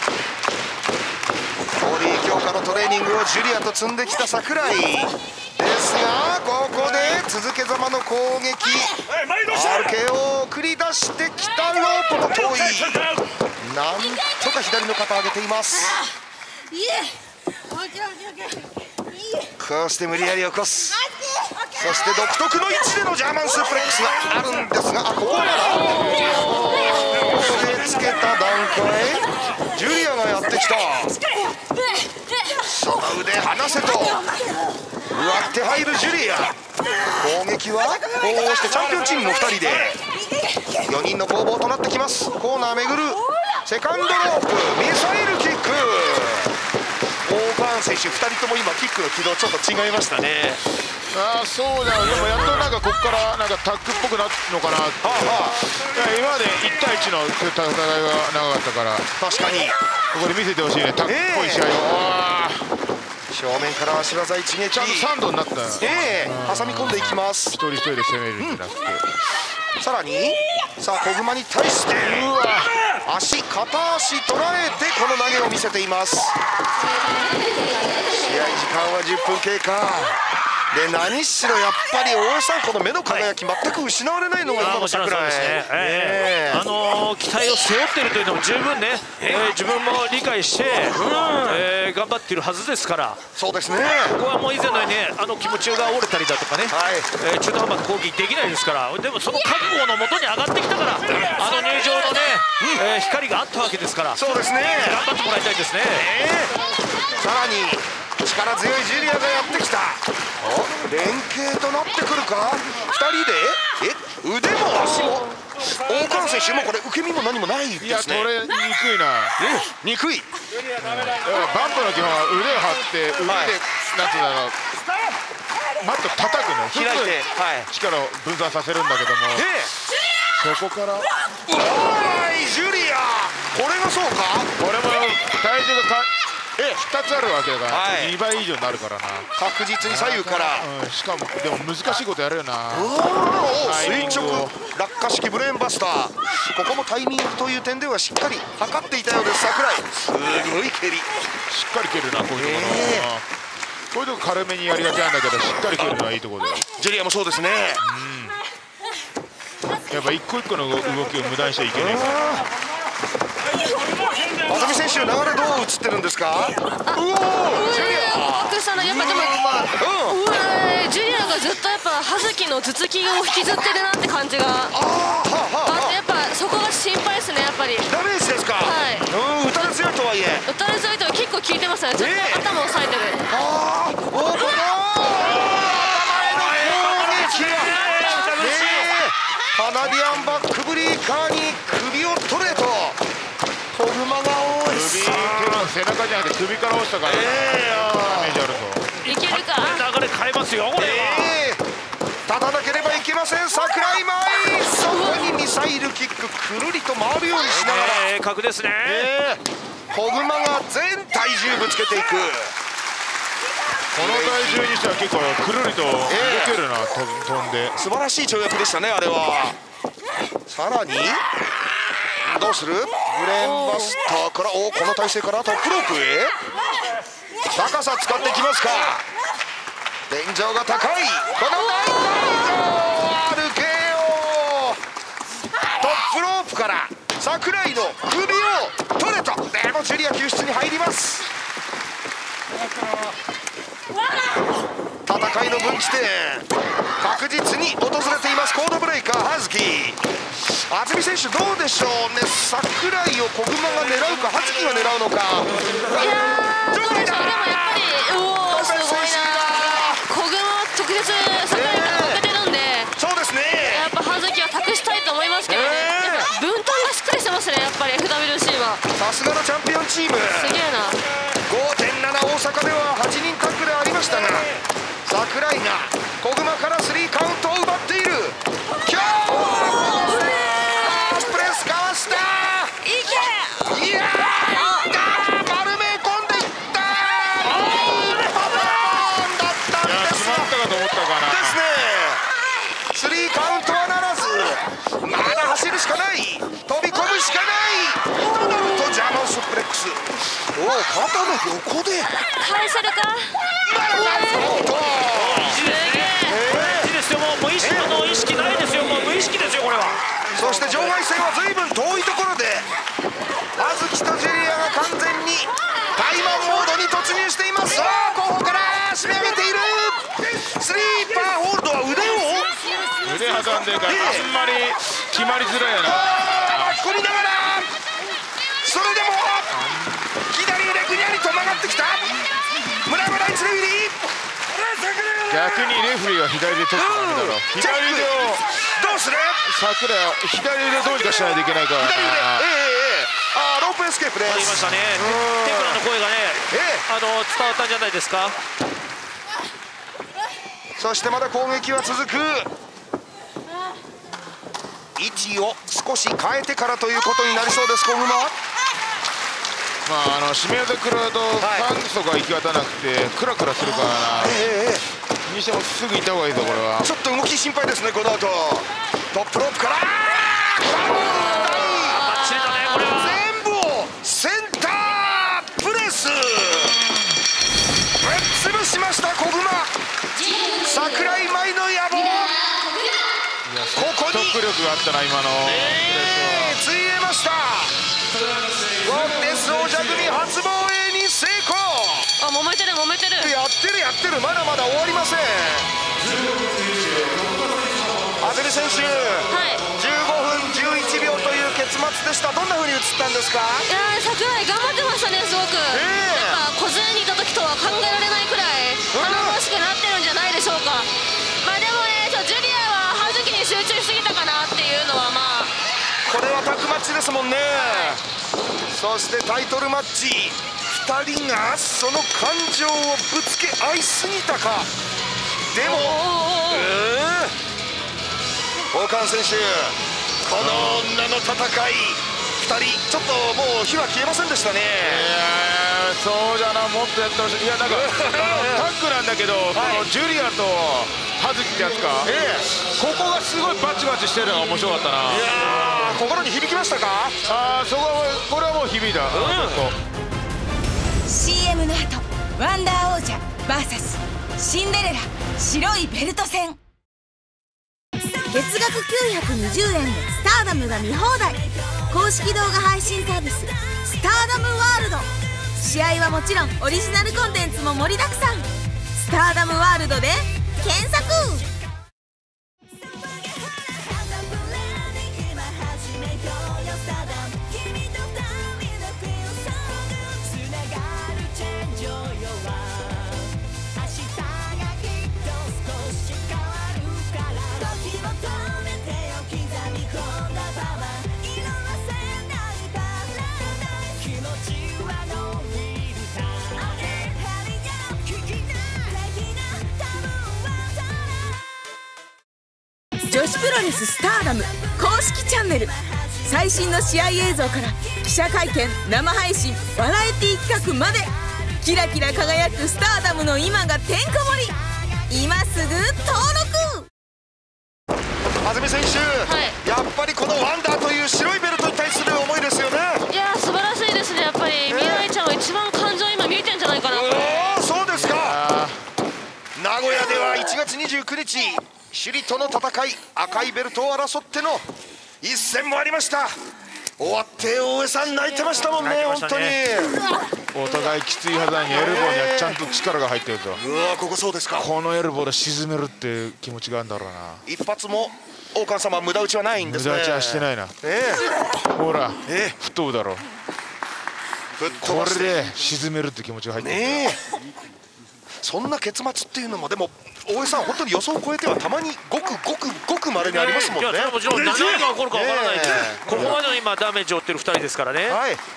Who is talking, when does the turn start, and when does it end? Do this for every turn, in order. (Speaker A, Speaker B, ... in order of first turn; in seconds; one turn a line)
Speaker A: 1.8-8.9
Speaker A: 9.4-13.1
Speaker A: 13.6-16.0
Speaker A: 19.6-21.0
Speaker A: 21.7-31.1
Speaker B: 25.9-27.3
Speaker A: 32.6-34.2
Speaker A: 35.1-36.5
Speaker A: 37.2-40.0
Speaker A: 40.8-46.5
Speaker A: 47.2-50.6
Speaker C: 51.1-59.1
Speaker A: 52.0-52.7
Speaker A: 55.0-55.6
Speaker A: 59.2-59.8
Speaker C: 60.1-62.7
Speaker A: 61.0-61.7
Speaker A: 63.3-65.1
Speaker C: 64.7-69.0
Speaker A: 65.8-67.6
Speaker A: 69.8-72.3
Speaker C: 71.9-72.7
Speaker A: 73.0-76.3
Speaker A: 78.2-80.2
Speaker A: 80.7-86.7
Speaker D: 84.6-93.2
Speaker A: 89.2-89.5
Speaker A: 90.8-91.7
Speaker A: 93.3-94.2
Speaker D: 94.1-104.2
Speaker A: 96.7-97.1
Speaker A: 102.6-102.9
Speaker A: 104.1-105.0
Speaker D: 104.8-106.1
Speaker A: 105.9-106.5
Speaker A: 107.2-118.3
Speaker C: 117.8-119.3
Speaker A: 119.4-120.3
Speaker C: 120.8-124.5
Speaker A: 123.2-123.5
Speaker C: 125.8-129.4
Speaker A: 126.7-127.7
Speaker A: 129.3-129.7
Speaker C: 130.3-131.1
Speaker A: 131.5-134.5
Speaker C: 134.6-136.1
Speaker A: 136.6-136.8
Speaker C: 136.8-139.3
Speaker A: 137.7-138.2
Speaker A: 139.4-140.7
Speaker C: 139.8-142.9
Speaker A: 142.7-151.1
Speaker C: 143.6-144.5
Speaker C: 151.5-153.2
Speaker A: 152.3-153.1
Speaker C: 153.9-156.6
Speaker A: 156.7-157.8
Speaker C: 157.8-158.4
Speaker C: 159.9-162.4
Speaker A: 161.7-162.5
Speaker A: 164.4-170.2
Speaker B: 166.9-174.7
Speaker A: 174.7-176.0
Speaker B: 175.7-177.9
Speaker A: 177.8-180.4
Speaker B: 178.6-179.1
Speaker B: 180.5-183.3
Speaker A: 181.9-182.5
Speaker A: 183.3-187.8
Speaker D: 186.0-188.9
Speaker A: 188.3-193.0
Speaker A: 193.7-195.7
Speaker C: 194.5-198.9
Speaker A: 197.0-198.4
Speaker B: 199.0-199.8
Speaker D: 199.1-201.4
Speaker A: 200.8-201.6
Speaker A: 202.3-208.1
Speaker B: 204.9-205.3
Speaker D: 207.4-209.1
Speaker A: 208.8-212.5
Speaker A: 213.9-214.7
Speaker C: 213.9-217.8
Speaker A: 216.1-216.6
Speaker A: 217.7-219.6
Speaker A: 220.5-221.2
Speaker A: 222.2-226.3
Speaker B: 223.4-223.9
Speaker A: 227.5-229.0
Speaker A: 230.1-234.8
Speaker A: 235.8-241.2
Speaker A: 245.0-246.5
Speaker A: 247.0-260.0
Speaker B: 255.9-262.9
Speaker A: 261.5-262.2
Speaker A: 263.0-263.9
Speaker B: 263.6-268.8
Speaker A: 265.5-266.3
Speaker A: 268.9-270.6
Speaker B: 270.4-271.0
Speaker A: 271.5-274.5
Speaker A: 275.0-282.8
Speaker B: 279.5-281.2
Speaker B: 282.8-283.8
Speaker A: 283.6-290.5
Speaker B: 284.5-284.9
Speaker B: 287.5-288.1
Speaker C: 289.8-291.6
Speaker A: 291.2-292.2
Speaker A: 292.9-302.1
Speaker B: 298.4-298.9
Speaker B: 302.4-303.4
Speaker A: 303.6-305.6
Speaker B: 303.9-304.7
Speaker D: 305.1-310.0
Speaker B: 305.6-306.4
Speaker A: 306.2-306.9
Speaker A: 307.6-308.0
Speaker A: 310.3-312.7
Speaker A: 313.6-322.6
Speaker C: 323.0-326.8
Speaker A: 323.8-324.3
Speaker A: 325.8-327.7
Speaker A: 328.6-332.1
Speaker C: 329.6-330.1
Speaker A: 332.8-334.1
Speaker C: 335.2-338.4
Speaker A: 336.7-339.4
Speaker C: 339.4-342.4
Speaker A: 341.8-345.8
Speaker D: 344.2-348.4
Speaker C: 344.6-344.9
Speaker A: 346.5-346.8
Speaker A: 350.8-352.5
Speaker A: 354.9-358.3
Speaker C: 359.8-364.4
Speaker A: 361.4-361.7
Speaker A: 363.6-364.8
Speaker C: 365.3-366.9
Speaker A: 366.8-372.1
Speaker D: 371.9-373.2
Speaker A: 372.7-376.8
Speaker A: 378.0-379.8
Speaker B: 380.1-381.2
Speaker A: 380.6-382.4
Speaker B: 382.1-382.9
Speaker C: 383.4-386.6
Speaker A: 383.7-384.4
Speaker A: 385.4-387.7
Speaker C: 388.3-390.2
Speaker A: 388.8-392.1
Speaker B: 392.2-393.3
Speaker A: 393.2-395.7
Speaker C: 396.0-398.2
Speaker A: 398.2-403.7
Speaker B: 399.3-399.6
Speaker B: 403.6-410.9
Speaker A: 405.7-406.4
Speaker A: 408.9-409.4
Speaker B: 411.4-415.5
Speaker A: 416.1-418.0
Speaker A: 418.7-424.7
Speaker A: 425.5-427.3
Speaker B: 425.6-426.7
Speaker A: 428.7-435.1
Speaker C: 430.4-430.9
Speaker C: 434.8-442.1
Speaker A: 437.6-438.7
Speaker A: 439.5-439.9
Speaker A: 442.0-442.5
Speaker C: 442.8-445.3
Speaker A: 445.0-447.2
Speaker C: 447.3-449.8
Speaker A: 449.1-449.7
Speaker E: 451.1-456.6
Speaker E: 458.3-471.5
Speaker E: 503.0-514.6
Speaker E: 515.1-516.9
Speaker A: 518.4-523.0
Speaker B: 519.2-519.6
Speaker B: 523.1-527.4
Speaker A: 524.7-525.1
Speaker A: 526.9-528.4
Speaker C: 527.9-528.8
Speaker A: 529.5-534.6
Speaker A: 535.2-536.4
Speaker A: 537.0-540.0
Speaker D: 538.8-539.6
Speaker C: 540.5-543.6
Speaker A: 541.7-542.6
Speaker A: 543.6-544.7
Speaker C: 544.6-547.4
Speaker A: 547.4-551.3
Speaker C: 549.6-550.7
Speaker C: 551.7-553.2
Speaker A: 552.2-552.5
Speaker A: 554.5-555.6
Speaker C: 554.8-557.1
Speaker A: 556.6-557.2
Speaker A: 558.4-566.4
Speaker D: 563.2-568.2
Speaker A: 568.1-568.4